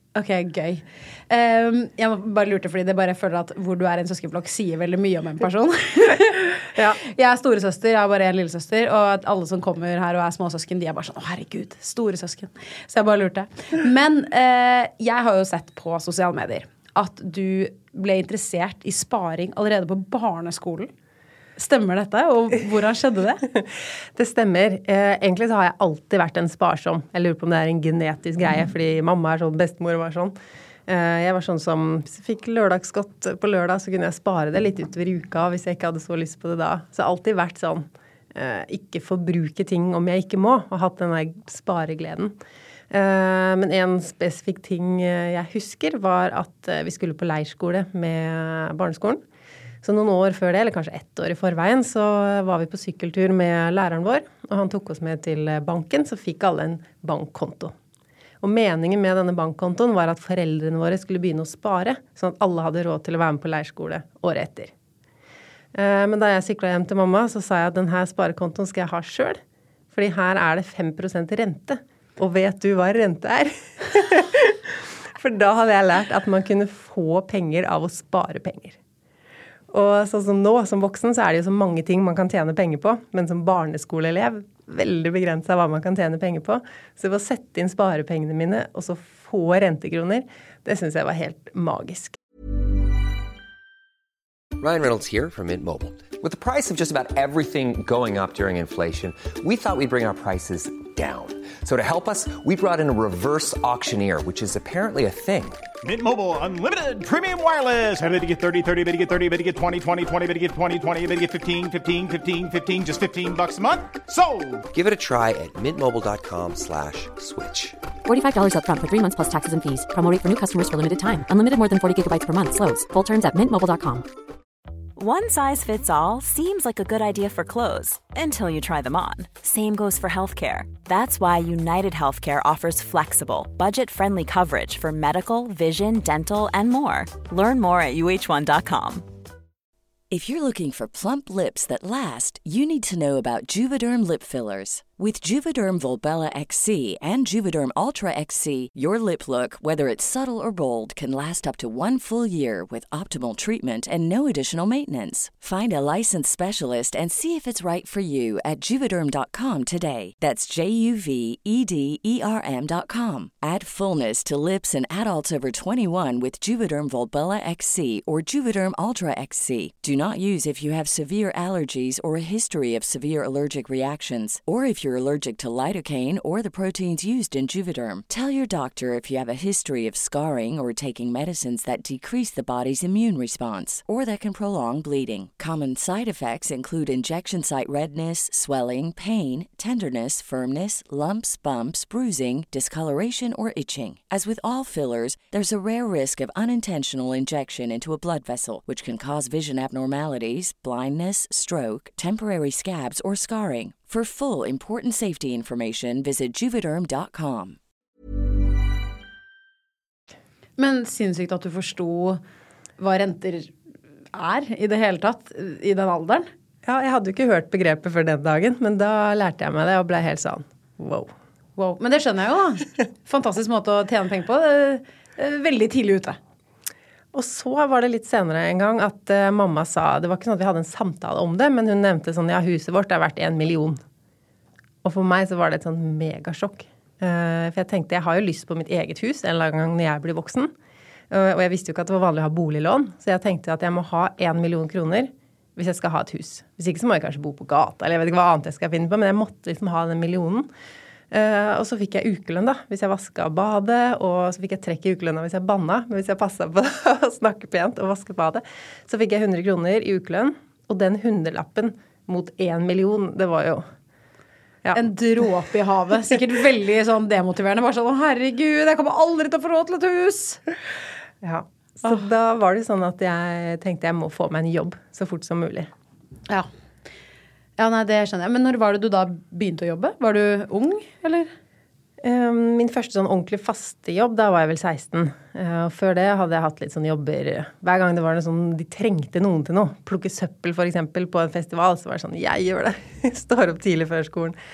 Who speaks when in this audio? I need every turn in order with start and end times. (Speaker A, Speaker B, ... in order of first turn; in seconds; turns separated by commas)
Speaker A: 0.1-20.9, Speaker B: 6.7-7.0, Speaker A: 21.6-23.4, Speaker B: 23.5-30.3, Speaker B: 30.9-42.4, Speaker B: 42.9-49.2, Speaker B: 49.8-57.7, Speaker B: 58.4-64.7, Speaker B: 65.7-69.4, Speaker B: 69.9-78.8, Speaker B: 79.7-92.2, Speaker C: 94.6-105.7, Speaker D: 105.8-114.6, Speaker C: 114.7-117.8, Speaker E: 118.0-124.1, Speaker F: 125.0-139.1, Speaker G: 140.1-207.6, Speaker A: 210.6-212.2, Speaker A: 212.8-213.5, Speaker A: 214.1-216.3, Speaker B: 216.6-221.1, Speaker A: 221.6-226.2, Speaker B: 227.1-233.8, Speaker B: 234.8-240.5, Speaker B: 241.1-250.5, Speaker B: 251.1-263.7, Speaker A: 264.7-270.4, Speaker B: 271.2-275.7, Speaker A: 277.6-281.3, Speaker B: 282.0-294.4